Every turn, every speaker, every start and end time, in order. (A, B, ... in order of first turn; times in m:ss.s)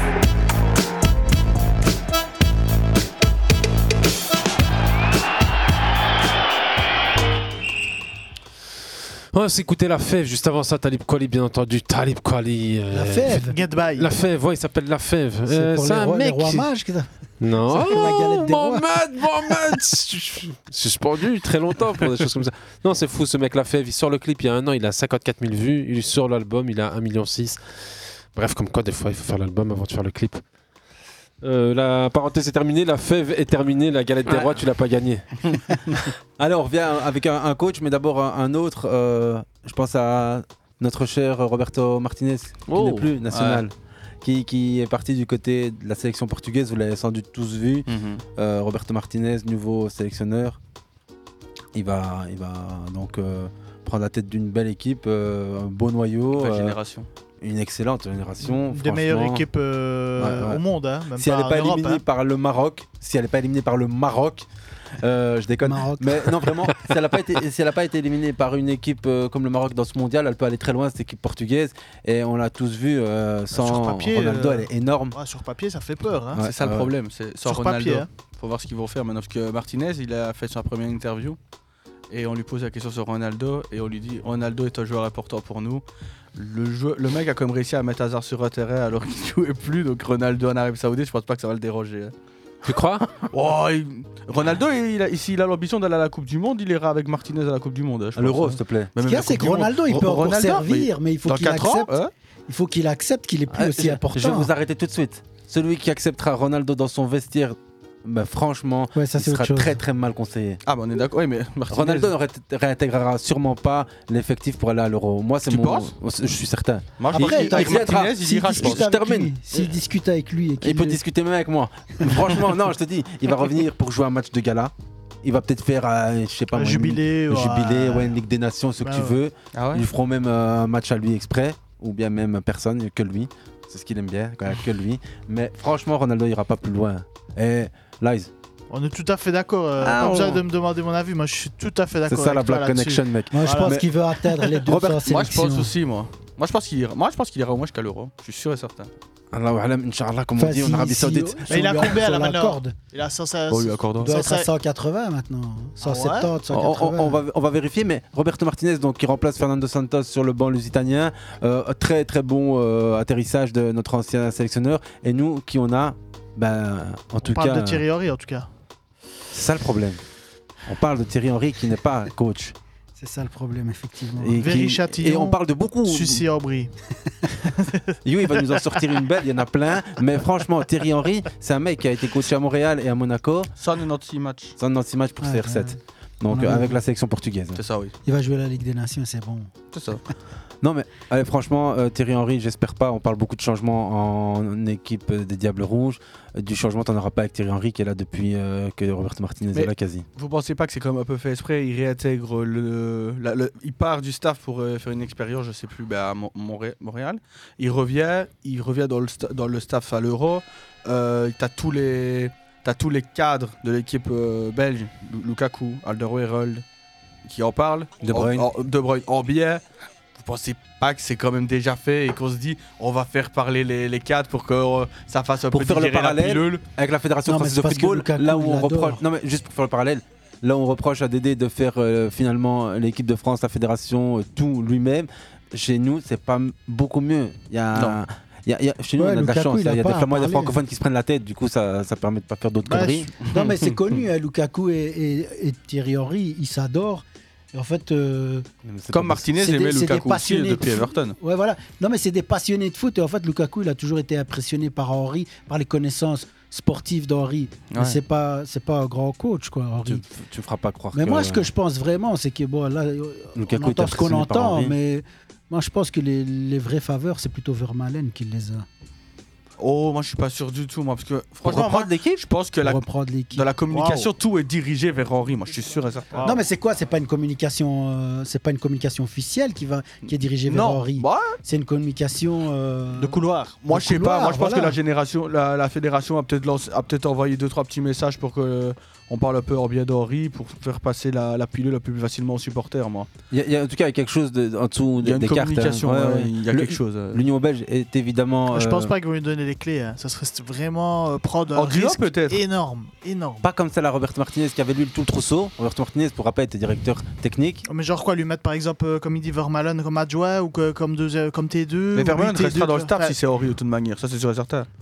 0:09.3-0:16.7 A
0:12.9-0:13.5 B
0:13.5-0:14.1 C
0:15.5-0:17.1 B
0:17.4-0:27.6 A
0:17.6-0:18.9 B
0:28.4-0:30.4 A
0:31.4-0:35.2 A
0:36.4-0:50.6 D
0:42.7-0:43.1 A
0:43.3-0:43.6 E
0:47.9-0:48.2 E
0:51.7-0:56.8 D
0:56.4-0:57.1 E
0:57.4-0:59.4 D
0:58.4-1:02.0 C
1:00.2-1:00.6 D
1:01.2-1:04.5 D
1:05.0-1:15.2 D
1:05.6-1:06.5 B
1:13.5-1:16.4 C
1:16.3-1:16.9 D
1:16.4-1:21.4 E
1:17.4-1:18.1 C
1:22.1-1:25.8 E
1:26.4-1:32.1 E
1:32.6-1:33.1 A
1:33.3-1:42.1 E
1:38.2-1:38.9 D
1:39.0-1:41.9 B
1:42.5-1:44.5 B
1:43.5-1:50.6 D
1:49.0-1:49.8 B
1:50.7-1:52.1 E
1:51.7-1:59.4 D
1:55.5-1:55.9 E
1:57.0-1:58.9 E
1:57.1-2:01.0 B
2:00.6-2:04.7 D
2:05.2-2:18.3 D
2:06.5-2:08.2 C
2:08.8-2:09.2 C
2:09.5-2:09.8 E
2:18.7-2:23.8 C
2:19.8-2:20.4 D
2:22.1-2:23.8 D
2:23.3-2:25.7 B
2:24.6-2:25.1 D
2:25.1-2:28.9 E
2:29.3-2:31.9 D
2:30.4-2:32.8 B
2:31.5-2:34.5 C
2:33.5-2:34.1 E
2:34.0-2:37.2 B
2:35.8-2:36.3 C
2:36.5-2:47.8 D
2:47.2-2:48.5 C
2:49.3-2:50.0 D
2:50.7-2:52.6 D
2:53.0-2:54.4 B
2:54.2-2:56.2 D
2:54.4-2:56.7 C
2:58.0-3:03.5 D
3:03.6-3:04.6 E
3:04.6-3:07.6 D
3:05.2-3:05.8 B
3:06.3-3:06.8 B
3:07.6-3:07.9 E
3:08.0-3:09.5 B
3:09.7-3:10.0 E
3:10.6-3:20.1 D
3:19.5-3:36.6 E
3:37.2-3:39.6 E
3:38.0-3:38.5 D
3:40.2-3:46.6 E
3:45.5-4:03.1 D
3:47.3-3:49.0 B
3:59.0-4:00.6 B
4:02.7-4:08.5 B
4:08.6-4:09.3 D
4:08.9-4:11.2 E
4:09.4-4:20.0 B
4:17.7-4:18.0 E
4:19.8-4:21.5 D
4:21.0-4:28.7 B
4:23.4-4:24.8 D
4:29.6-4:36.3 E
4:31.4-4:32.2 D
4:32.6-4:33.5 B
4:33.7-4:34.1 C
4:36.2-4:43.2 B
4:40.5-4:41.3 E
4:43.0-4:43.6 C
4:43.6-4:53.1 E
4:43.7-4:44.8 B
4:53.3-4:58.9 D
4:55.0-4:57.2 E
4:58.5-5:03.5 C
5:01.5-5:02.4 E
5:03.4-5:07.6 D
5:07.7-5:13.2 C
5:12.0-5:14.7 E